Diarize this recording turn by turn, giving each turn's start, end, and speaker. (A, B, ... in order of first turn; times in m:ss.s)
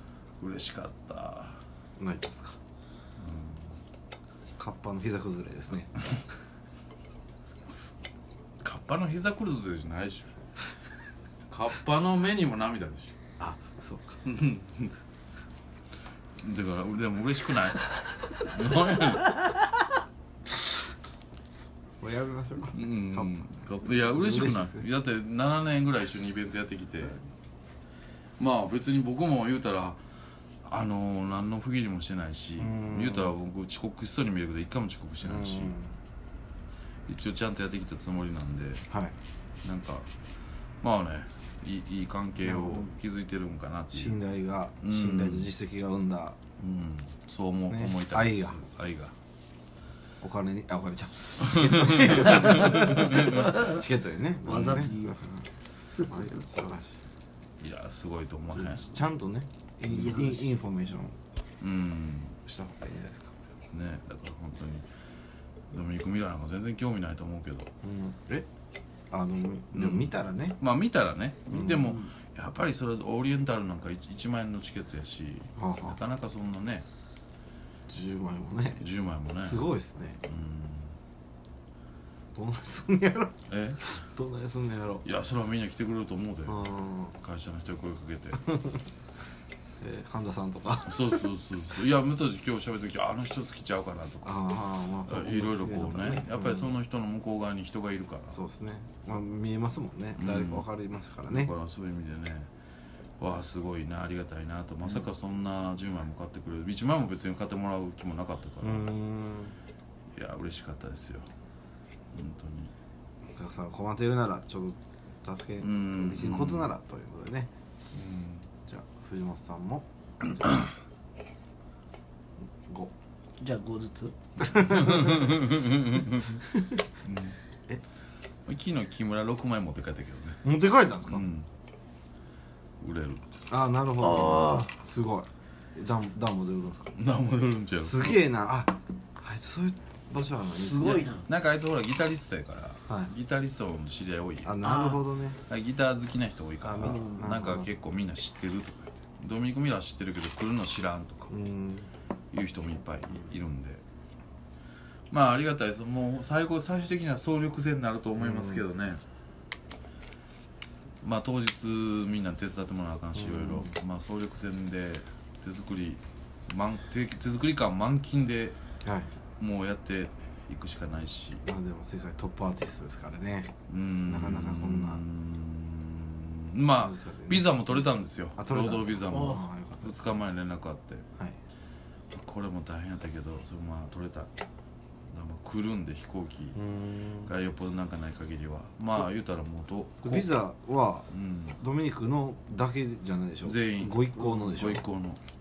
0:00.4-0:01.6 A
0:02.0-0:02.6 B
0:03.2-0:03.8 A
0:04.6-0:06.2 B
0:08.6-0:10.4 A
0:11.5-0:13.1 A
0:13.4-0:14.2 B
0:14.2-0:14.9 A
0:16.4-0:19.7 A
0:22.0-0:23.4 B
0:22.7-0:27.2 A
0:23.9-0:24.9 B
0:28.4-0:30.0 A
0:30.6-0:35.7 A
0:32.6-0:33.3 B
0:35.2-0:36.0 B
0:37.1-0:38.9 A
0:38.9-0:39.1 B
0:39.6-0:40.1 A
0:40.8-0:44.2 A
0:42.4-0:42.9 B
0:43.9-0:46.4 B
0:44.8-0:45.5 A
0:46.6-0:49.1 A
0:47.7-0:48.6 B
0:50.2-0:57.0 B
0:51.5-0:53.6 A
0:52.8-0:53.8 C
0:54.4-0:55.2 C
0:55.8-0:56.5 C
0:57.6-0:59.0 A
0:58.5-1:01.2 B
0:59.8-1:00.5 C
1:01.6-1:02.4 A
1:02.4-1:03.3 B
1:03.7-1:04.8 A
1:05.7-1:07.7 A
1:07.8-1:08.4 B
1:09.1-1:10.6 B
1:09.7-1:16.9 A
1:11.5-1:12.0 B
1:15.6-1:16.0 B
1:17.9-1:20.2 B
1:18.8-1:21.0 A
1:22.3-1:25.0 B
1:23.5-1:23.9 A
1:25.0-1:28.5 A
1:26.4-1:27.2 B
1:28.4-1:28.8 B
1:29.8-1:31.2 B
1:30.8-1:38.4 A
1:34.2-1:36.8 B
1:38.3-1:41.5 B
1:40.2-1:40.7 A
1:41.2-1:42.5 A
1:43.2-1:48.9 A
1:48.6-1:49.5 B
1:50.1-1:51.3 A
1:52.1-1:52.7 A
1:53.4-1:57.5 B
1:55.6-1:56.7 A
1:57.9-1:58.5 A
1:58.6-2:00.7 B
2:02.6-2:02.9 B
2:03.4-2:04.6 C
2:04.4-2:05.4 B
2:04.6-2:06.4 A
2:06.5-2:06.8 B
2:07.0-2:07.4 A
2:08.4-2:10.5 A
2:10.4-2:11.2 B
2:11.1-2:11.5 A
2:12.8-2:13.4 A
2:13.5-2:17.0 B
2:14.0-2:14.7 C
2:16.9-2:18.2 A
2:17.8-2:21.1 B
2:20.5-2:21.3 C
2:21.1-2:24.6 A
2:22.9-2:23.1 B
2:24.4-2:25.4 B
2:24.6-2:25.0 C
2:25.4-2:31.4 A
2:26.6-2:27.7 B
2:26.8-2:27.3 C
2:31.3-2:31.9 B
2:32.3-2:33.8 A
2:35.1-2:39.0 A
2:38.2-2:38.6 B
2:41.0-2:48.6 A
2:43.1-2:43.7 B
2:48.8-2:49.1 B
2:49.4-2:51.5 A
2:51.4-2:53.5 B
2:53.7-3:01.1 A
2:54.0-2:55.0 B
2:56.7-3:00.2 B
2:59.1-2:59.4 C
3:02.1-3:04.3 A
3:05.1-3:06.6 A
3:06.5-3:07.3 B
3:07.2-3:10.4 A
3:10.0-3:11.1 B
3:11.1-3:11.6 A
3:11.6-3:14.8 B
3:13.4-3:15.2 A